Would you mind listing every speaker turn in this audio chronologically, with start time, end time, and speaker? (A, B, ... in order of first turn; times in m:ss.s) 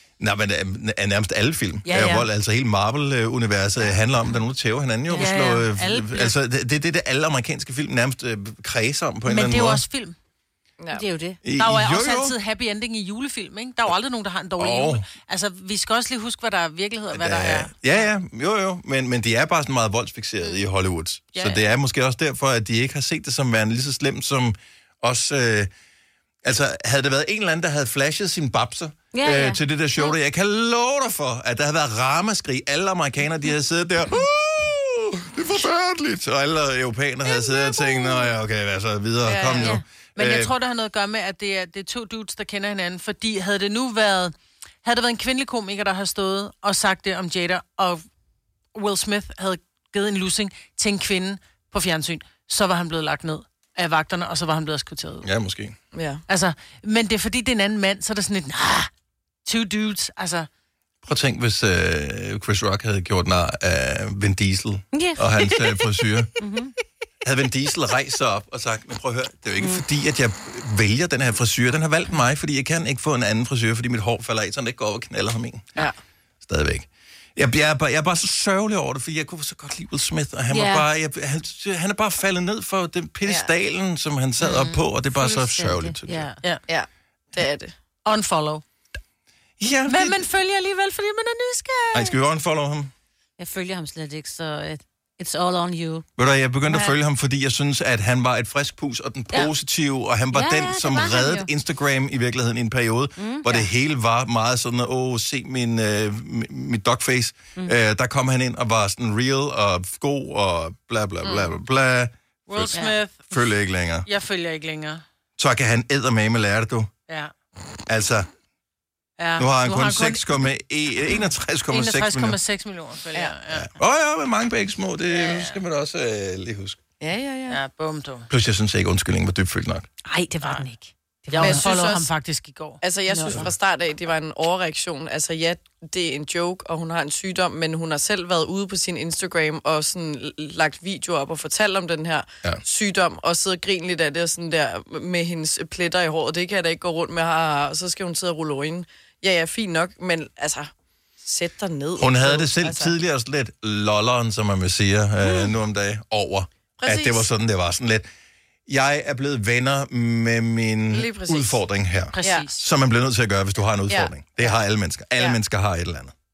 0:00.2-0:09.8 A
0:01.9-0:02.3 B
0:05.1-0:06.4 B
0:09.3-0:10.2 B
0:10.8-0:11.1 C
0:10.9-0:11.4 D
0:11.4-0:12.3 A
0:11.6-0:18.0 B
0:14.6-0:15.0 A
0:17.1-0:25.7 A
0:26.4-0:40.5 A
0:29.1-0:30.2 D
0:39.2-0:39.8 C
0:39.7-0:48.0 B
0:48.7-0:55.3 B
0:55.2-0:55.8 A
0:55.9-0:56.2 C
0:56.3-0:58.9 B
0:59.5-1:00.5 B
1:01.0-1:06.3 A
1:04.9-1:06.7 D
1:07.2-1:15.8 A
1:09.6-1:09.8 D
1:16.4-1:26.3 A
1:20.5-1:20.9 D
1:23.2-1:23.5 C
1:24.5-1:26.4 D
1:26.7-1:27.7 C
1:28.0-1:28.6 B
1:29.6-1:30.2 A
1:29.9-1:32.2 B
1:31.9-1:32.9 A
1:33.4-1:36.0 D
1:36.2-1:52.7 A
1:36.7-1:37.0 C
1:40.3-1:41.5 D
1:43.2-1:43.7 D
1:51.2-1:51.6 C
1:52.5-1:53.4 B
1:53.3-1:54.1 A
1:54.1-1:55.0 B
1:55.4-1:56.9 A
1:57.9-1:58.3 A
1:59.2-2:00.2 B
1:59.4-2:02.4 A
2:01.7-2:03.7 B
2:03.5-2:06.8 A
2:05.1-2:05.6 B
2:07.0-2:07.6 C
2:07.5-2:08.3 B
2:08.3-2:09.9 A
2:10.1-2:11.7 D
2:11.3-2:12.8 B
2:11.4-2:12.1 C
2:12.8-2:32.9 C
2:13.1-2:13.4 D
2:32.0-2:38.1 A
2:36.8-2:37.3 C
2:38.7-2:46.1 A
2:40.9-2:41.6 C
2:42.1-2:42.6 B
2:43.9-2:44.6 C